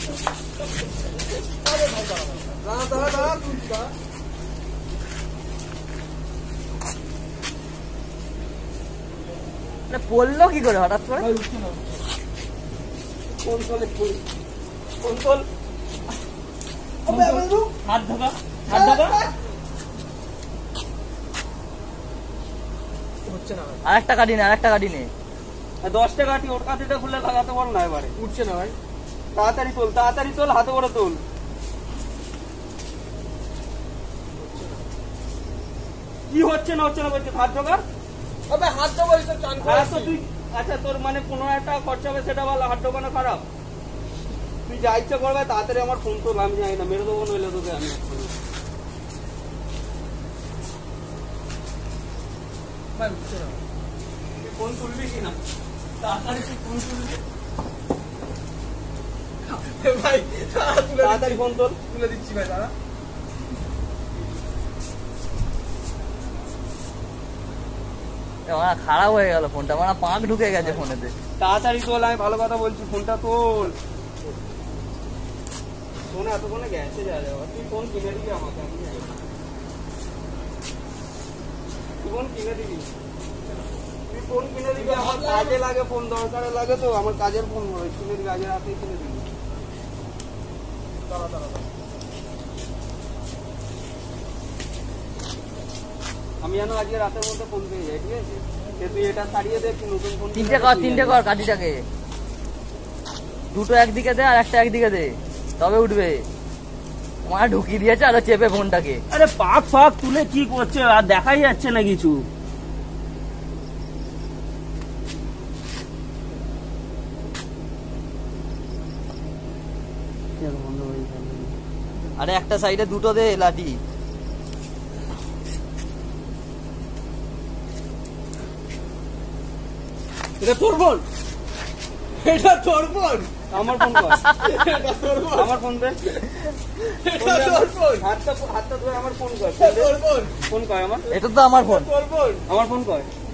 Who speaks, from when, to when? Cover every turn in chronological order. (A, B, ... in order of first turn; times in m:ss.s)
0:01.6-0:03.9 A
0:09.9-0:11.3 B
0:11.1-0:12.0 A
0:13.3-0:14.2 C
0:15.0-0:15.5 C
0:17.0-0:19.2 C
0:17.1-0:17.7 A
0:18.7-0:19.3 A
0:23.2-0:23.8 A
0:23.9-0:25.1 B
0:25.8-0:28.2 C
0:28.2-0:28.8 A
0:29.3-0:31.2 C
0:34.4-0:34.8 A
0:36.3-0:37.8 C
0:38.5-0:40.1 A
0:39.6-0:43.4 C
0:44.7-0:48.3 C
0:52.9-0:53.6 A
0:54.4-0:55.4 C
0:56.0-0:57.2 A
0:59.5-1:02.7 A
1:01.0-1:01.8 C
1:08.5-1:11.1 B
1:11.4-1:13.8 C
1:16.1-1:19.2 C
1:22.0-1:22.9 C
1:24.1-1:29.3 C
1:24.7-1:25.6 A
1:36.4-1:41.2 C
1:40.3-1:41.8 B
1:43.5-1:46.2 B
1:47.2-1:49.0 B
1:49.1-1:52.3 C
2:00.4-2:01.6 C
2:02.2-2:03.8 B
2:10.4-2:11.0 C
2:12.2-2:13.4 A
2:13.5-2:14.2 C
2:14.0-2:14.6 B
2:14.4-2:15.5 A
2:15.4-2:16.1 C
2:16.8-2:18.1 A
2:17.2-2:21.1 C
2:19.6-2:20.4 A
2:21.1-2:21.9 B
2:21.6-2:22.5 A
2:22.5-2:23.1 C